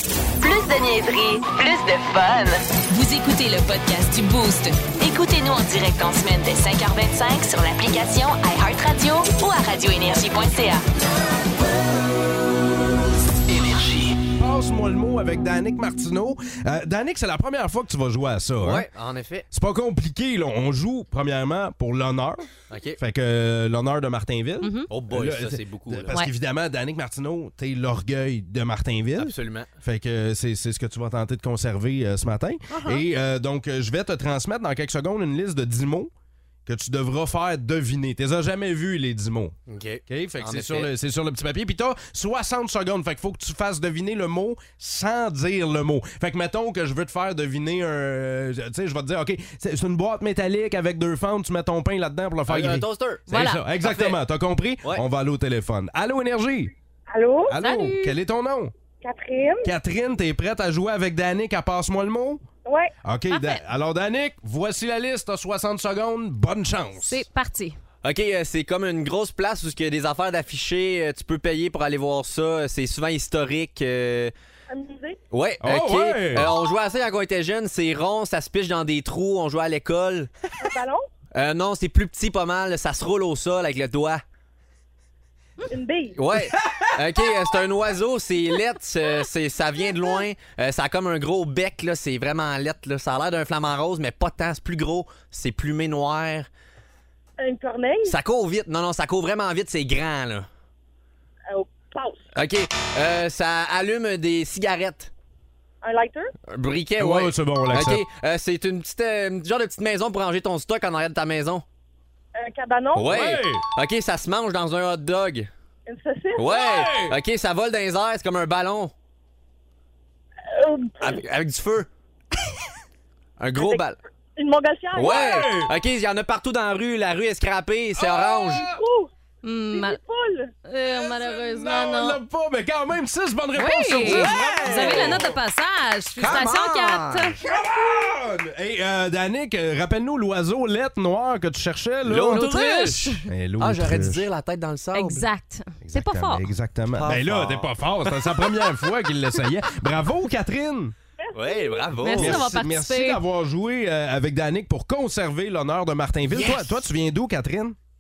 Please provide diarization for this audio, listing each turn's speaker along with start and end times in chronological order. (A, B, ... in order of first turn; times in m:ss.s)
0:00.4-0:10.8 A
0:14.4-0:18.9 B
0:18.6-0:19.5 C
0:19.5-0:36.1 B
0:22.7-0:23.0 C
0:24.6-0:24.9 D
0:24.9-0:26.2 C
0:29.2-0:29.7 C
0:32.7-0:33.0 D
0:36.7-0:39.6 B
0:39.7-0:40.9 C
0:40.1-0:56.7 B
0:52.5-0:53.2 C
0:53.3-0:53.6 D
0:53.8-0:54.2 C
0:57.1-0:57.5 E
0:57.5-0:58.7 B
0:57.6-0:58.2 D
0:59.0-0:59.7 E
0:59.6-1:02.4 B
1:02.7-1:02.9 E
1:03.0-1:07.2 B
1:03.3-1:03.6 D
1:07.0-1:07.8 D
1:08.0-1:14.3 C
1:14.7-1:15.2 E
1:15.3-1:20.3 C
1:15.6-1:16.5 B
1:20.6-1:21.0 E
1:21.3-1:24.2 C
1:25.7-1:26.2 E
1:26.2-1:36.5 C
1:26.6-1:26.9 B
1:37.4-1:38.2 E
1:38.0-1:40.5 C
1:41.5-1:42.2 E
1:42.4-1:45.1 C
1:45.8-1:46.3 E
1:46.5-1:51.6 C
1:47.0-1:48.0 B
1:52.4-1:53.1 E
1:52.9-1:55.5 C
1:53.1-1:53.6 B
1:55.9-1:56.6 E
1:56.4-1:58.9 C
1:56.5-1:57.2 B
2:00.5-2:01.2 E
2:01.0-2:01.9 C
2:03.4-2:04.0 C
2:03.6-2:05.5 E
2:04.9-2:08.7 C
2:05.0-2:05.7 B
2:08.0-2:08.8 B
2:08.5-2:09.1 E
2:09.4-2:10.0 D
2:09.7-2:10.5 E
2:10.6-2:12.2 D
2:10.9-2:15.4 B
2:13.6-2:17.4 D
2:14.0-2:15.2 C
2:16.2-2:17.4 C
2:17.4-2:22.5 B
2:22.0-2:25.3 C
2:22.3-2:23.2 D
2:23.3-2:24.3 B
2:25.0-2:26.4 D
2:25.8-2:31.0 B
2:26.9-2:27.8 C
2:31.2-2:31.9 E
2:31.3-2:32.4 C
2:32.0-2:33.2 D
2:32.2-2:37.8 B
2:36.3-2:36.8 C